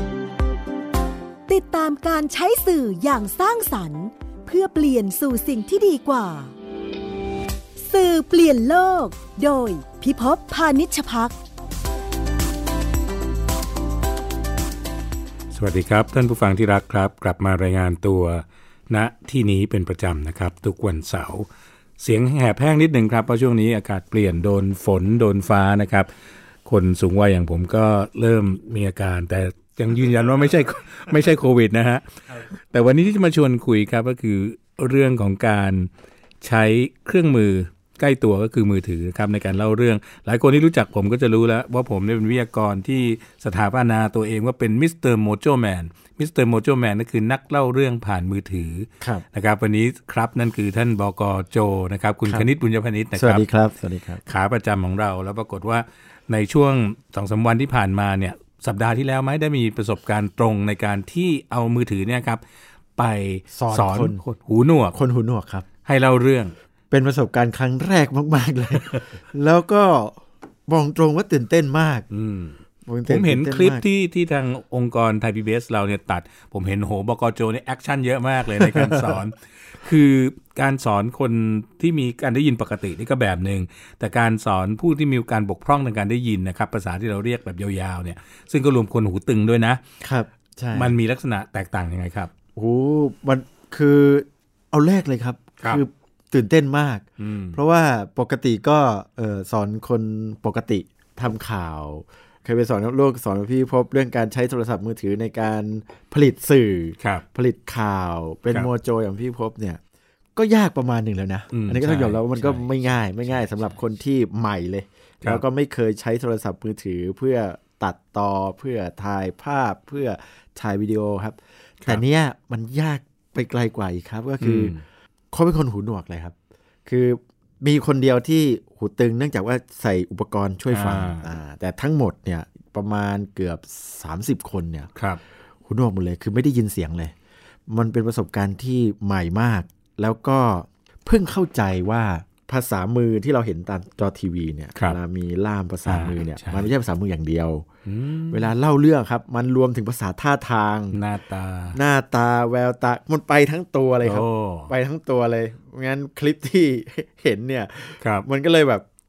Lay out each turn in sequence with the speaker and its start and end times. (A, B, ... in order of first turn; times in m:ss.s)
0:01.5-0:06.5 A
0:07.8-0:11.4 A
0:15.5-0:21.5 B
0:22.0-0:26.1 B
0:26.6-0:35.9 B
0:36.4-0:53.5 B
0:53.1-0:54.2 C
0:54.2-1:02.4 B
1:03.0-1:05.0 B
1:03.5-1:04.2 C
1:04.9-1:05.7 C
1:05.8-1:06.5 B
1:06.9-1:12.1 C
1:12.1-1:29.8 B
1:12.9-1:13.8 C
1:18.6-1:19.2 C
1:30.0-1:31.0 C
1:30.7-1:32.3 B
1:32.6-1:49.8 C
1:37.2-1:37.6 B
1:47.0-1:47.2 B
1:50.4-2:04.7 C
1:51.5-1:53.7 B
2:04.4-2:04.8 B
2:05.3-2:14.9 C
2:10.7-2:11.3 B
2:15.0-2:15.2 B
2:15.7-2:17.1 C
2:17.7-2:27.7 C
2:25.9-2:26.7 B
2:27.9-2:28.5 B
2:28.3-2:31.0 C
2:30.9-2:31.8 B
2:31.7-2:38.8 C
2:34.0-2:34.7 B
2:38.0-2:38.3 B